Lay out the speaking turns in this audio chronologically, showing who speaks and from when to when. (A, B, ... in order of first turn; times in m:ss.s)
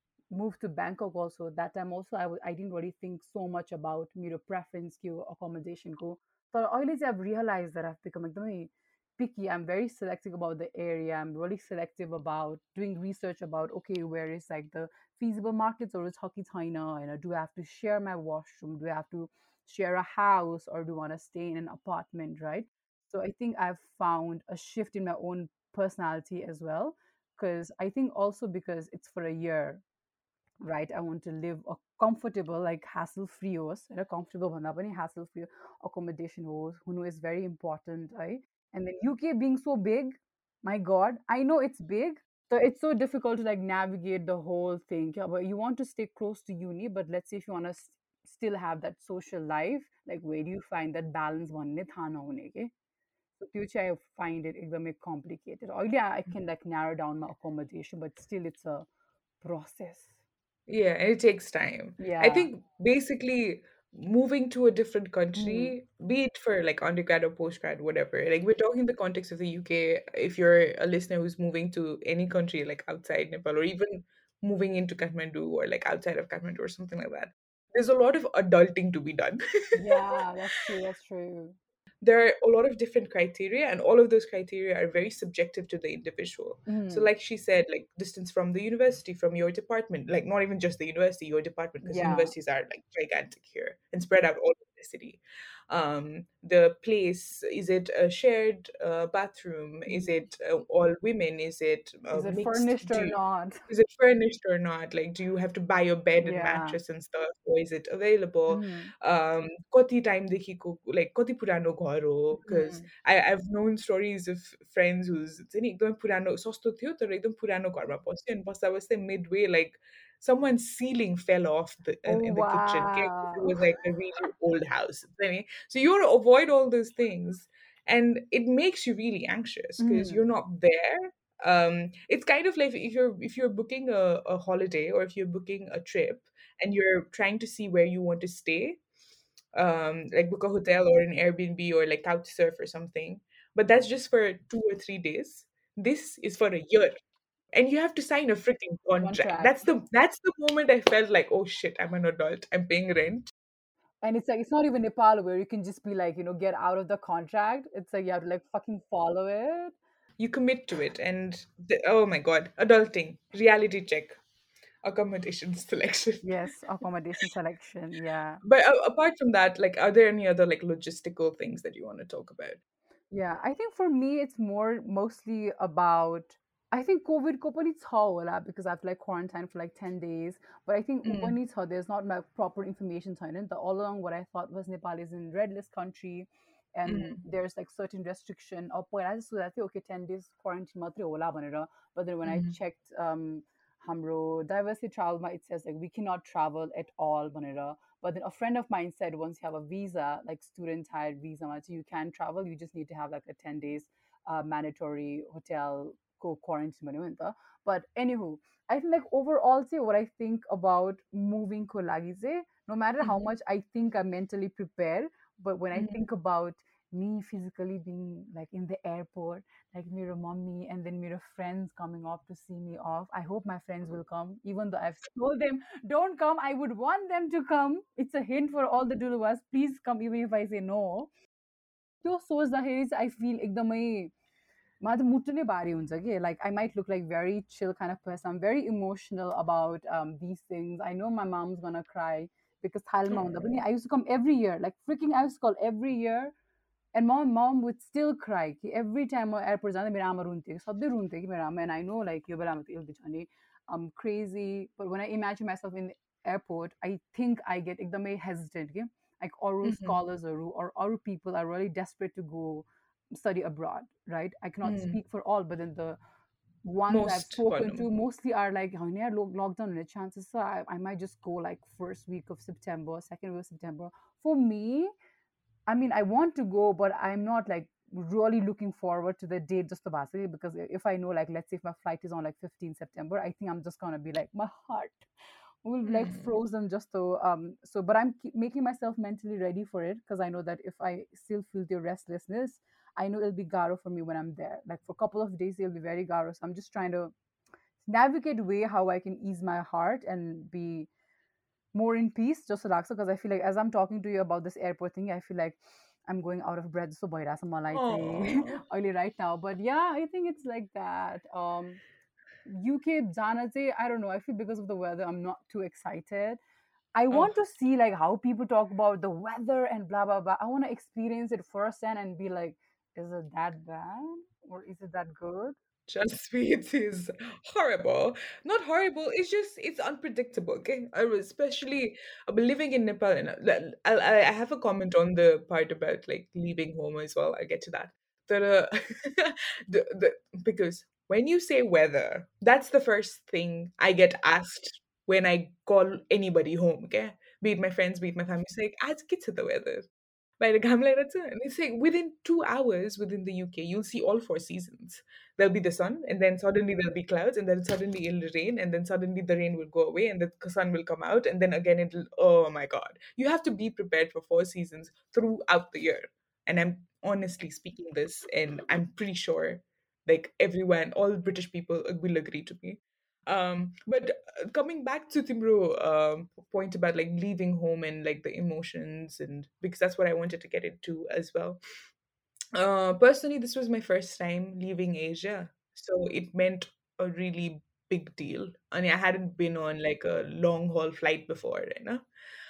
0:00.3-0:29.8 A
0:30.6-0:52.7 A
0:53.4-0:58.8 A
0:59.4-1:00.1 A
1:00.7-1:20.0 B
1:02.0-1:02.5 A
1:05.4-1:05.7 A
1:19.7-1:21.6 A
1:22.0-1:43.2 B
1:26.6-1:27.1 A
1:31.8-1:32.3 A
1:42.1-1:43.6 A
1:43.7-2:18.8 B
1:46.2-1:46.8 A
1:48.5-1:48.9 A
1:52.4-1:52.9 A
2:02.0-2:03.5 A
2:09.8-2:10.2 A
2:19.5-2:27.0 B
2:27.5-2:33.3 B
2:29.0-2:29.6 A
2:34.0-2:39.8 A
2:40.2-2:44.2 B
2:44.8-2:46.2 B
2:46.2-2:48.4 A
2:48.4-2:52.6 B
2:53.1-3:51.1 A
3:01.0-3:01.4 B
3:06.8-3:07.2 B
3:12.2-3:12.5 B
3:35.7-3:36.0 B
3:52.0-3:54.1 A
3:54.8-4:06.3 A
4:06.9-4:26.0 A
4:19.6-4:20.0 B
4:24.6-4:25.0 B
4:26.6-4:34.9 A
4:26.9-4:27.9 B
4:35.7-4:45.1 A
4:45.6-4:57.1 A
4:45.8-4:46.3 B
4:57.8-5:00.9 A
5:01.7-5:11.8 A
5:07.7-5:08.6 B
5:12.4-5:16.4 A
5:16.9-5:25.6 A
5:25.9-5:49.9 B
5:50.4-6:21.6 B
6:22.5-6:32.0 B